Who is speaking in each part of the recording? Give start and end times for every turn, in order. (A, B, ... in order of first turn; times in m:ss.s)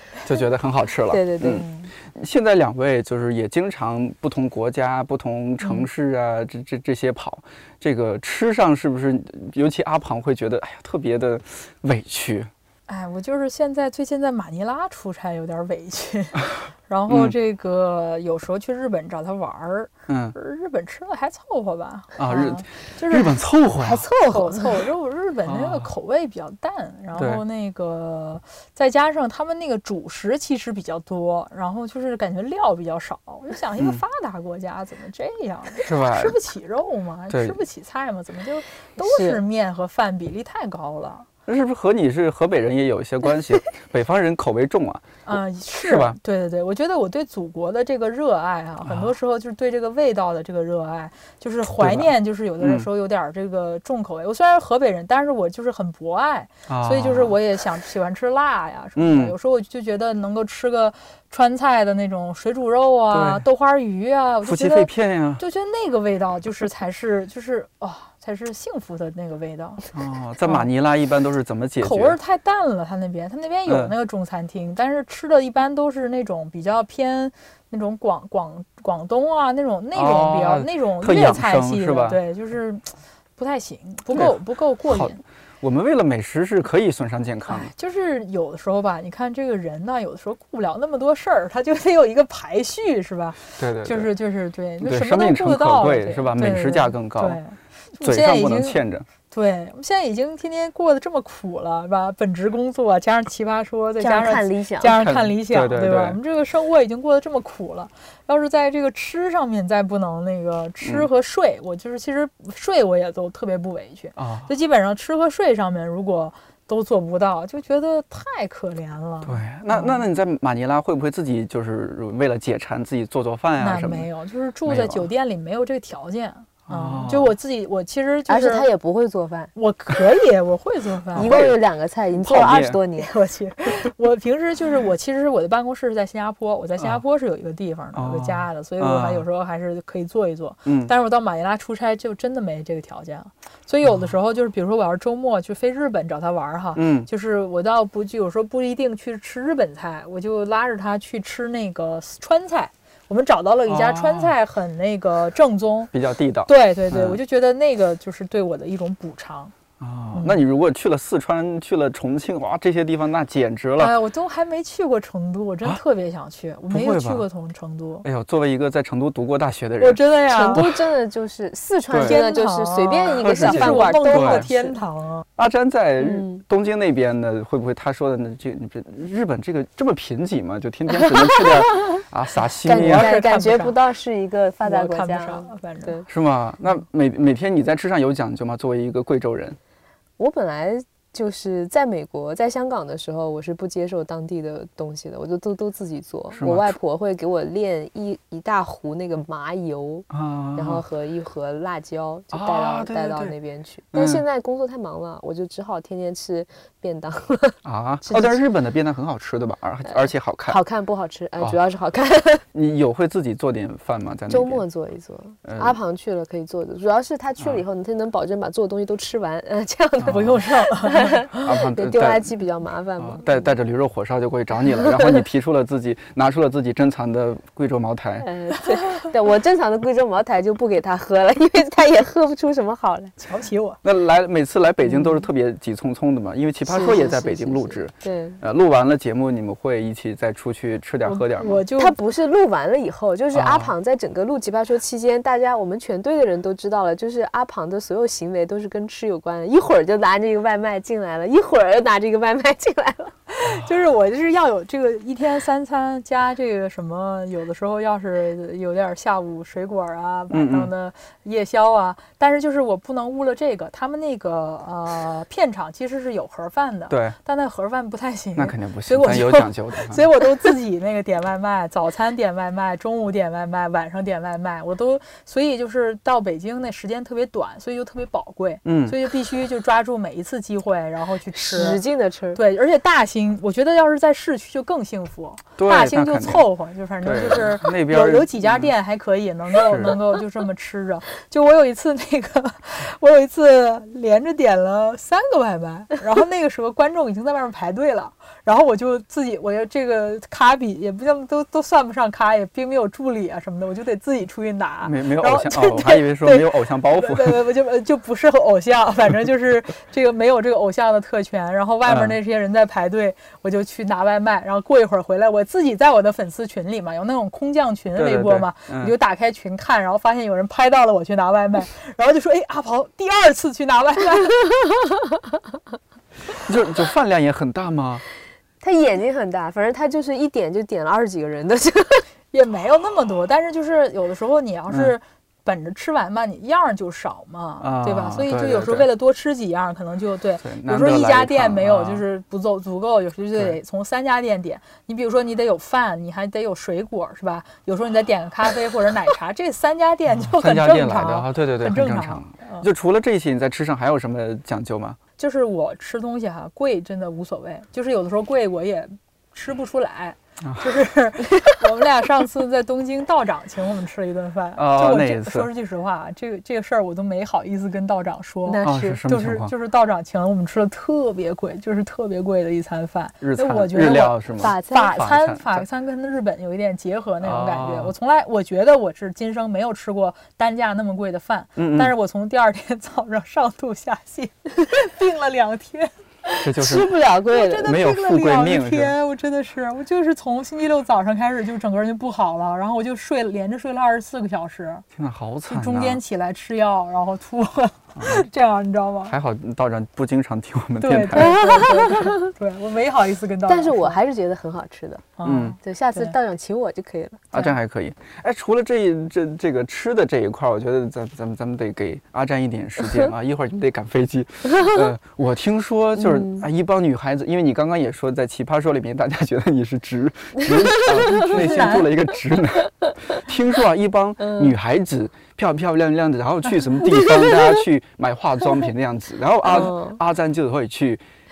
0:00.2-0:12.5 A
0:01.1-0:01.9 B
0:12.9-0:23.4 C
0:17.1-0:17.3 A
0:20.1-0:20.4 A
0:22.2-0:24.0 A
0:23.8-0:24.8 B
0:24.2-0:41.3 C
0:25.5-0:25.9 A
0:27.2-0:27.4 A
0:35.8-0:36.4 A
0:37.3-0:37.6 A
0:39.0-0:39.4 B
0:41.5-0:46.2 A
0:45.2-1:09.8 C
0:48.9-0:49.1 A
0:51.8-0:52.9 A
0:56.7-0:57.4 A
0:59.0-0:59.3 A
1:03.1-1:03.4 A
1:04.4-1:05.4 A
1:09.9-1:12.2 A
1:11.8-1:25.2 C
1:13.6-1:13.9 A
1:19.9-1:22.2 A
1:24.9-1:27.7 A
1:27.4-2:00.0 C
1:33.6-1:34.1 A
1:34.8-1:37.4 A
1:38.0-1:39.1 A
1:44.0-1:45.0 B
1:44.9-1:46.2 A
1:54.2-1:54.5 A
1:59.2-2:04.1 A
2:03.6-2:08.7 C
2:04.6-2:05.1 A
2:06.7-2:07.3 A
2:08.3-2:09.5 B
2:09.5-2:11.4 C
2:11.1-2:11.6 A
2:11.1-2:13.1 B
2:12.2-2:12.8 A
2:13.0-2:35.9 C
2:17.9-2:19.2 A
2:20.6-2:20.9 A
2:23.8-2:24.1 A
2:26.8-2:27.1 A
2:33.7-2:34.3 A
2:35.9-2:37.2 A
2:36.5-2:39.5 C
2:39.8-2:44.0 A
2:40.1-2:40.4 C
2:43.8-2:48.0 C
2:46.7-2:47.2 A
2:48.0-2:50.8 A
2:49.8-2:50.6 C
2:50.3-2:54.8 B
2:51.9-2:52.2 A
2:52.0-2:55.2 C
2:53.2-2:54.5 A
2:55.4-3:03.2 A
2:56.0-2:56.4 B
3:01.4-3:01.9 B
3:02.6-3:06.0 B
3:02.6-3:03.8 C
3:04.6-3:06.0 C
3:06.1-3:09.6 A
3:10.2-3:28.4 B
3:16.3-3:16.8 A
3:20.1-3:20.8 A
3:22.3-3:23.4 A
3:23.9-3:24.2 A
3:27.6-3:30.6 A
3:30.5-3:32.4 B
3:32.5-3:34.6 A
3:34.3-3:43.5 B
3:35.5-3:35.8 A
3:40.0-3:40.4 A
3:40.0-3:41.2 C
3:41.4-3:42.3 A
3:43.0-3:48.3 A
3:48.2-3:53.2 B
3:53.2-3:53.8 C
3:53.8-4:01.6 A
3:54.9-3:55.2 B
3:56.7-3:58.4 B
4:01.0-4:02.0 C
4:01.7-4:13.1 B
4:03.3-4:03.7 A
4:13.3-4:41.8 C
4:20.3-4:20.7 A
4:26.9-4:27.2 A
4:28.4-4:30.0 A
4:38.6-4:39.0 A
4:41.4-4:42.4 B
4:42.3-5:24.5 C
4:45.6-4:46.5 A
4:47.0-4:48.7 A
4:49.6-4:50.0 A
5:04.8-5:07.4 A
5:11.9-5:12.2 A
5:18.0-5:18.9 A
5:26.3-5:28.0 A
5:28.6-5:32.1 B
5:32.3-5:52.6 C
5:37.6-5:38.9 A
5:40.4-5:42.0 A
5:50.1-5:55.0 A
5:55.2-6:26.5 C
6:00.4-6:00.7 A
6:04.6-6:05.5 A
6:08.4-6:09.0 B
6:08.6-6:09.5 A
6:13.2-6:15.6 A
6:14.4-6:15.0 B
6:17.2-6:18.0 A
6:21.6-6:22.0 A
6:26.4-6:26.9 A
6:26.6-6:27.8 B
6:27.3-6:34.8 C
6:27.6-6:28.9 A
6:34.9-6:36.0 A
6:35.5-6:39.1 C
6:38.0-6:38.2 A
6:39.1-6:41.6 A
6:40.8-6:44.0 C
6:41.1-6:42.3 B
6:43.5-6:47.5 B
6:45.2-6:46.1 C
6:45.2-6:45.6 A
6:47.3-7:11.0 A
6:56.0-6:56.5 B
7:00.4-7:01.5 B
7:01.0-7:01.9 C
7:04.2-7:04.5 B
7:09.5-7:10.0 B